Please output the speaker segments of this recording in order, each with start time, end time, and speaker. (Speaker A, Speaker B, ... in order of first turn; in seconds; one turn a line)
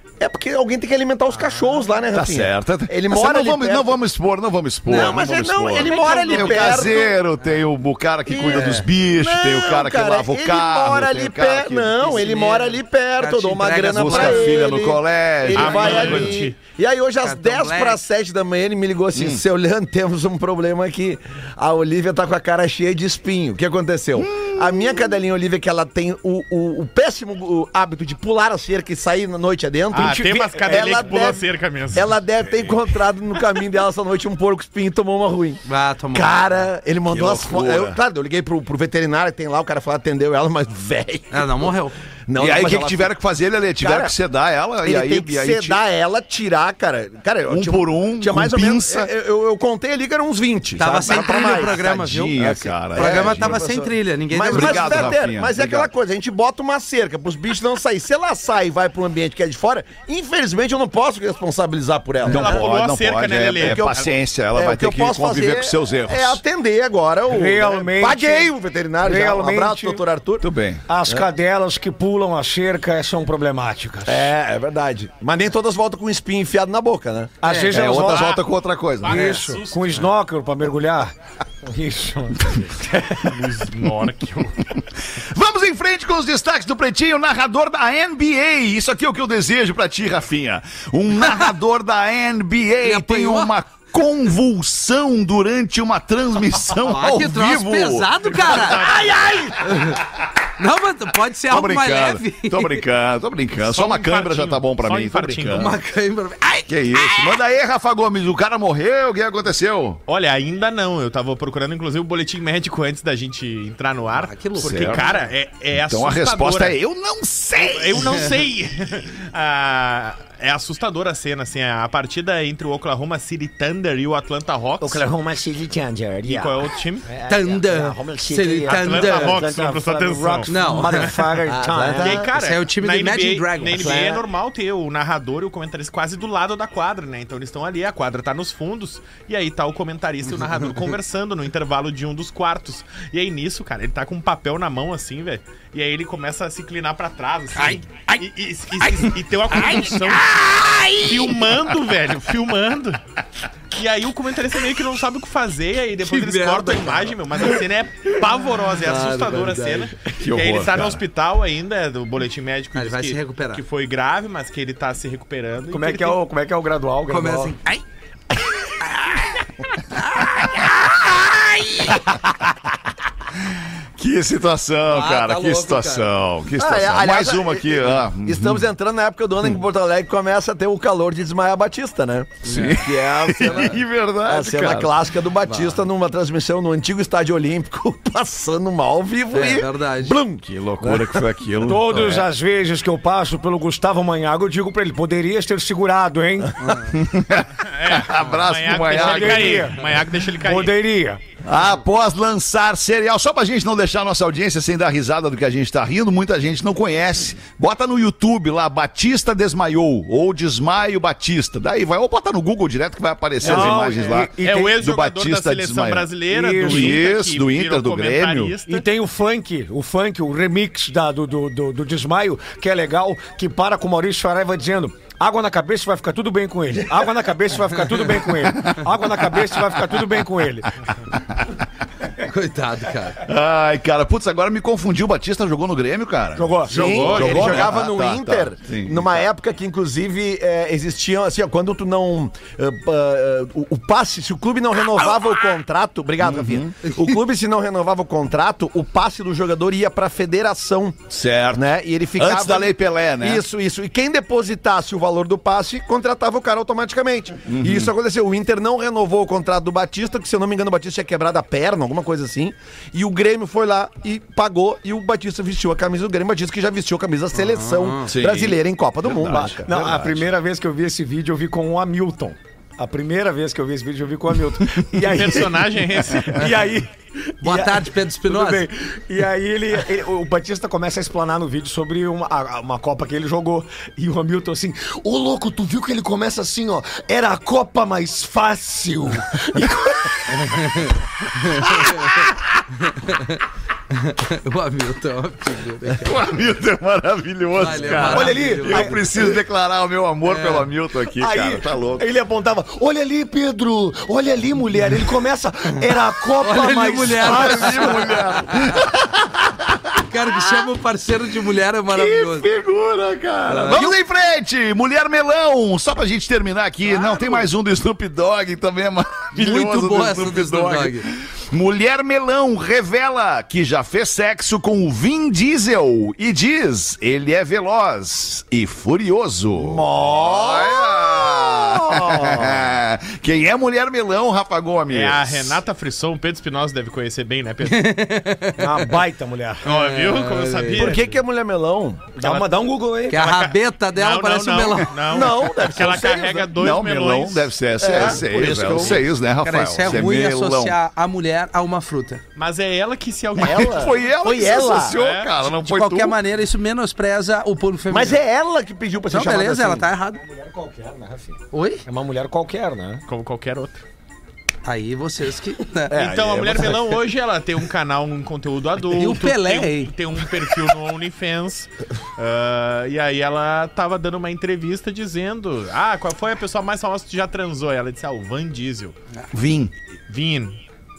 Speaker A: 0.2-4.0
Speaker B: 1.3-1.9
Speaker C: 2.1-12.1
Speaker D: 4.9-6.9
Speaker A: 4.9-7.2
Speaker B: 5.8-6.2
Speaker A: 8.3-31.4
Speaker D: 12.0-14.6
Speaker C: 13.9-16.4
Speaker B: 15.5-16.6
Speaker D: 17.2-18.0
Speaker C: 19.1-19.4
Speaker C: 24.1-25.1
Speaker B: 29.9-32.9
Speaker E: 30.0-31.3
Speaker A: 31.9-35.6
Speaker D: 35.6-36.3
Speaker A: 36.1-41.7
Speaker C: 37.1-38.0
Speaker D: 41.3-42.0
Speaker A: 42.3-43.1
Speaker C: 42.3-45.8
Speaker A: 43.8-44.1
Speaker A: 44.8-62.7
Speaker C: 47.5-49.1
Speaker D: 50.8-55.2
Speaker C: 51.1-53.6
Speaker C: 54.4-55.9
Speaker C: 62.2-66.4
Speaker B: 62.2-64.0
Speaker A: 63.6-70.5
Speaker E: 67.3-70.0
Speaker C: 70.4-70.8
Speaker E: 70.8-74.3
Speaker A: 74.0-77.4
Speaker E: 77.4-78.3
Speaker D: 77.4-78.0
Speaker C: 77.7-79.2
Speaker B: 78.0-78.4
Speaker B: 79.0-80.1
Speaker E: 79.0-81.1
Speaker E: 81.7-83.3
Speaker B: 83.2-84.8
Speaker C: 85.1-99.1
Speaker D: 92.8-93.5
Speaker D: 96.8-98.8
Speaker B: 98.6-99.1
Speaker A: 98.6-99.6
Speaker D: 99.6-100.0
Speaker D: 100.6-102.8
Speaker C: 101.5-105.8
Speaker B: 103.6-105.7
Speaker D: 105.5-107.4
Speaker C: 106.7-110.0
Speaker B: 110.1-116.8
Speaker D: 114.1-115.2
Speaker C: 114.6-115.0
Speaker C: 115.7-118.3
Speaker B: 117.5-125.1
Speaker E: 124.8-132.2
Speaker B: 126.2-127.1
Speaker D: 127.3-129.4
Speaker B: 128.7-131.4
Speaker D: 130.5-131.1
Speaker A: 131.5-132.3
Speaker B: 131.9-150.4
Speaker D: 132.3-134.2
Speaker A: 133.7-134.2
Speaker D: 149.5-151.1
Speaker B: 150.9-153.0
Speaker B: 153.7-166.2
Speaker D: 156.0-157.1
Speaker D: 158.8-159.9
Speaker C: 160.2-161.0
Speaker D: 162.7-163.6
Speaker E: 165.7-167.5
Speaker D: 167.1-167.8
Speaker C: 174.0-178.7
Speaker D: 174.9-176.1
Speaker A: 176.6-191.2
Speaker D: 182.4-182.9
Speaker C: 182.5-185.0
Speaker D: 185.4-185.8
Speaker D: 189.3-190.2
Speaker C: 190.4-192.3
Speaker E: 191.6-196.8
Speaker C: 196.9-199.7
Speaker B: 197.6-200.8
Speaker E: 198.8-201.2
Speaker C: 201.4-216.1
Speaker E: 213.4-214.8
Speaker B: 213.4-218.8
Speaker E: 216.3-217.0
Speaker C: 216.6-218.6
Speaker E: 218.7-230.7
Speaker C: 228.4-228.8
Speaker D: 232.2-233.2
Speaker C: 233.2-239.3
Speaker E: 236.3-237.1
Speaker B: 236.7-237.7
Speaker A: 236.7-251.0
Speaker C: 246.2-246.7
Speaker C: 251.1-253.4
Speaker A: 251.5-269.7
Speaker C: 257.5-257.9
Speaker D: 267.3-268.1
Speaker C: 268.1-270.2
Speaker E: 269.3-290.7
Speaker B: 275.0-276.6
Speaker D: 277.4-278.7
Speaker D: 290.4-292.2
Speaker C: 291.7-292.4
Speaker D: 292.8-296.1
Speaker C: 296.0-302.1
Speaker D: 297.6-299.0
Speaker E: 297.9-299.4
Speaker D: 300.3-300.6
Speaker E: 301.1-308.3
Speaker D: 306.4-308.8
Speaker C: 307.2-310.7
Speaker D: 310.1-312.5
Speaker C: 311.9-335.6
Speaker D: 313.5-313.9
Speaker D: 316.9-317.4
Speaker D: 319.3-321.1
Speaker A: 329.6-331.3
Speaker B: 334.9-338.0
Speaker D: 337.6-338.9
Speaker E: 338.6-339.6
Speaker B: 339.6-341.2
Speaker D: 339.6-340.9
Speaker A: 340.7-342.1
Speaker E: 342.1-343.2
Speaker B: 342.2-347.5
Speaker D: 343.1-344.9
Speaker A: 345.1-346.6
Speaker C: 346.5-350.8
Speaker A: 347.8-349.0
Speaker D: 349.4-352.2
Speaker B: 352.4-353.9
Speaker C: 353.4-356.2
Speaker A: 353.4-354.9
Speaker B: 354.9-355.4
Speaker D: 355.4-358.2
Speaker A: 357.9-359.9
Speaker D: 359.1-360.2
Speaker E: 360.1-363.0
Speaker D: 361.5-361.8
Speaker B: 363.1-363.8
Speaker D: 364.6-366.0
Speaker B: 365.9-378.9
Speaker A: 365.9-366.9
Speaker D: 368.9-369.9
Speaker C: 379.3-379.7
Speaker B: 380.1-380.6